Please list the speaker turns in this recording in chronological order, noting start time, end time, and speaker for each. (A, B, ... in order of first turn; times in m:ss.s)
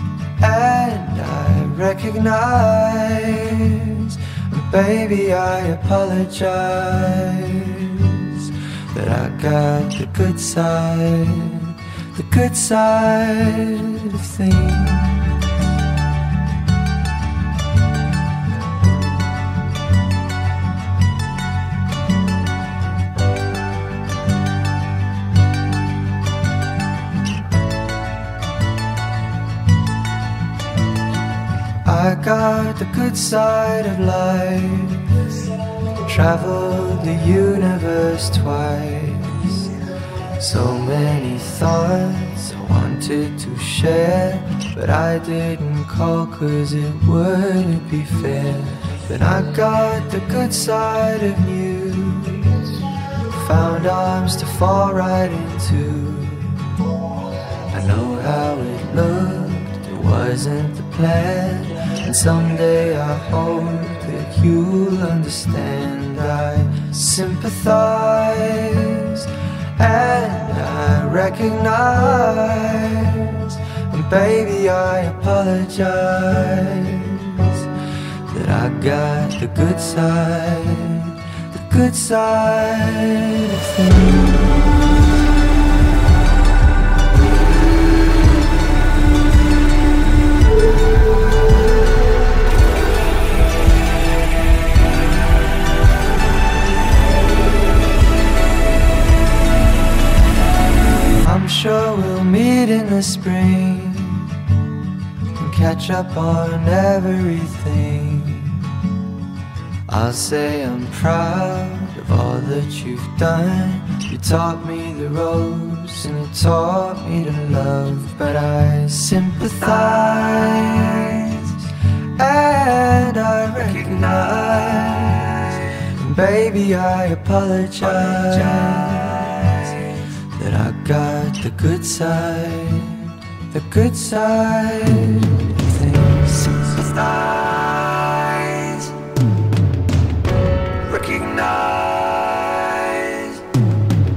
0:00.4-0:15.3 A
0:31.8-0:35.4 A
0:36.1-0:39.8 A
0:40.4-0:52.6 A
0:53.3-0:56.7 A
0:57.7-1:17.7 A
1:18.3-1:24.7 A
1:41.2-1:44.3 A
1:45.4-1:48.7 A
1:49.9-2:18.9 A
2:20.8-2:23.4 A